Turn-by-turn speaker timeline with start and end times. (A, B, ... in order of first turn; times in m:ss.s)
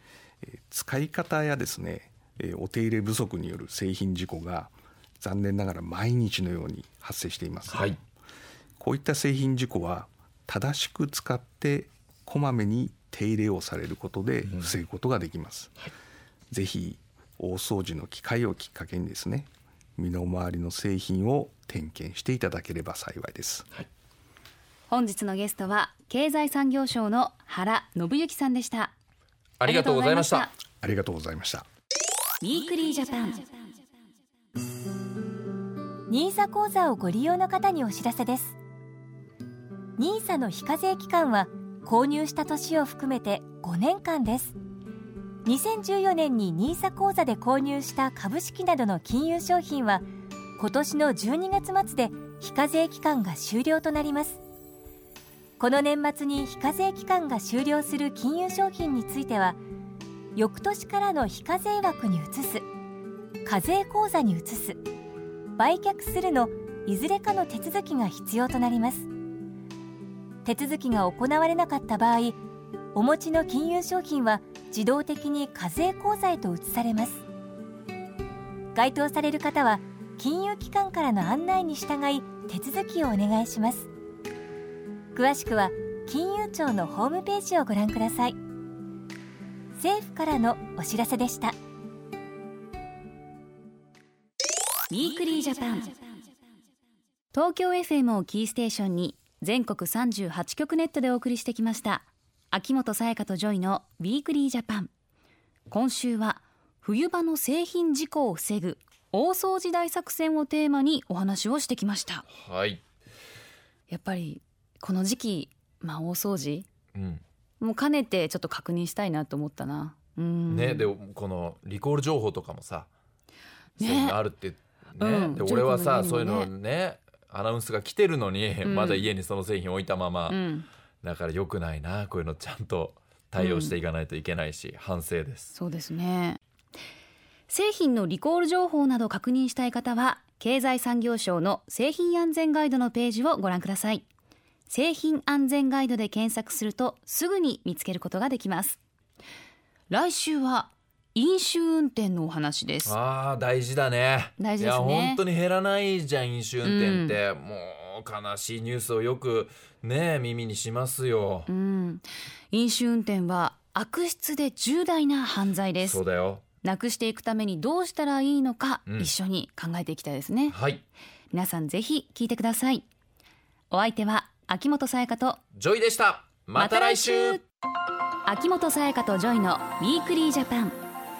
0:00.4-0:07.9 A
0:07.7-0:08.0 B
0:08.8-0:15.7 A
0:14.4-0:14.7 B
0:16.5-0:23.7 A
0:24.9-0:28.9 C
0:29.6-0:30.5 B
0:29.6-0:30.5 C
0:30.8-0:31.6 A
0:32.4-0:33.4 C
0:36.1-0:38.6 D
0:40.0-0:44.6 D
0:45.4-0:50.0 D
0:50.6-0:54.4 D
0:55.6-0:59.6 D
1:00.3-1:02.6 D
1:03.4-1:04.8 D
1:05.6-1:09.1 D
1:10.4-1:12.4 D
1:12.9-1:17.2 D
1:18.7-1:23.9 D
1:25.1-1:28.4 D
1:29.8-1:31.6 D
1:34.9-1:36.0 C
1:37.3-1:44.9 C
1:45.7-1:52.2 C
1:52.3-1:52.8 B
1:53.9-1:56.7 C
1:56.9-1:57.2 B
1:57.6-2:00.9 C
2:00.5-2:02.9 B
2:03.8-2:04.2 C
2:03.8-2:10.4 B
2:05.0-2:06.5 C
2:08.6-2:09.1 C
2:10.3-2:10.7 C
2:11.0-2:15.5 B
2:13.4-2:13.7 C
2:15.5-2:16.4 C
2:17.5-2:24.0 C
2:24.7-2:28.8 C
2:29.9-2:32.9 C
2:32.8-2:41.5 B
2:34.4-2:35.2 C
2:36.6-2:37.2 C
2:41.5-2:46.0 C
2:45.8-2:46.4 B
2:46.6-2:50.6 C
2:50.5-2:50.8 B
2:51.3-2:52.8 C
2:53.7-2:55.4 C
2:55.5-2:57.4 B
2:56.6-2:57.4 C
2:58.2-3:00.8 C